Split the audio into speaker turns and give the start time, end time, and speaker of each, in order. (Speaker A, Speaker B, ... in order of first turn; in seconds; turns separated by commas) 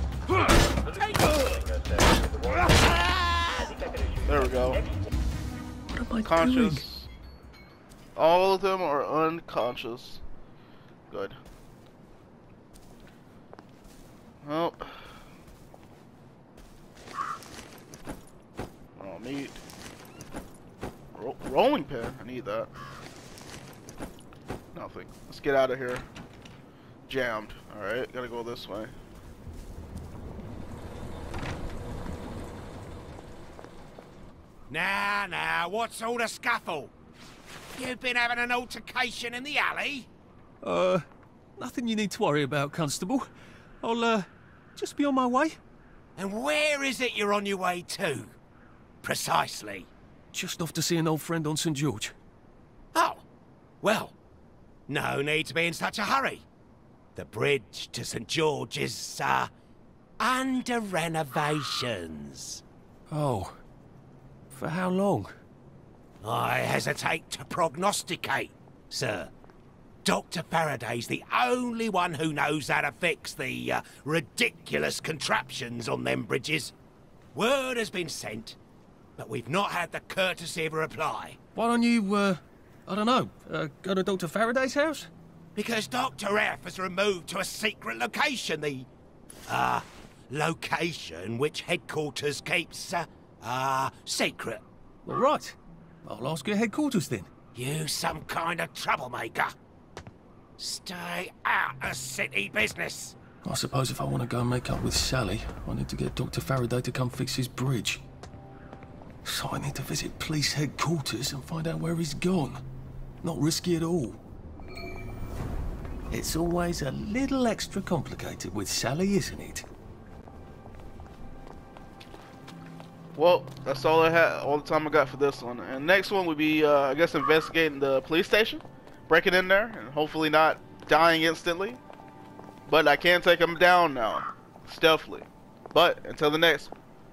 Speaker A: 4.2-4.8, Speaker B: 5.9-6.8, Speaker A: 6.2-7.1, Speaker A: 8.2-10.2, Speaker A: 11.1-11.4, Speaker A: 14.4-15.1, Speaker A: 18.9-19.6, Speaker A: 21.1-22.7, Speaker A: 24.7-26.1, Speaker A: 27.1-28.9, Speaker C: 34.7-36.9, Speaker C: 37.8-40.1, Speaker B: 40.6-41.1, Speaker B: 41.6-45.6, Speaker C: 46.2-48.4, Speaker C: 49.0-49.9, Speaker B: 50.3-52.1, Speaker C: 53.0-53.2, Speaker C: 53.8-54.1, Speaker C: 54.9-56.5, Speaker C: 57.1-59.5, Speaker C: 60.2-62.6, Speaker B: 63.1-63.6, Speaker B: 64.5-65.3, Speaker C: 66.2-69.3, Speaker C: 70.0-76.7, Speaker C: 77.3-78.6, Speaker C: 79.2-81.4, Speaker B: 81.6-85.1, Speaker C: 85.5-88.9, Speaker C: 89.5-94.6, Speaker B: 95.0-97.3, Speaker C: 97.5-99.5, Speaker C: 100.6-103.2, Speaker B: 103.4-108.0, Speaker B: 109.2-112.6, Speaker B: 113.2-114.2, Speaker B: 116.1-119.7, Speaker A: 123.2-131.8, Speaker A: 132.7-136.7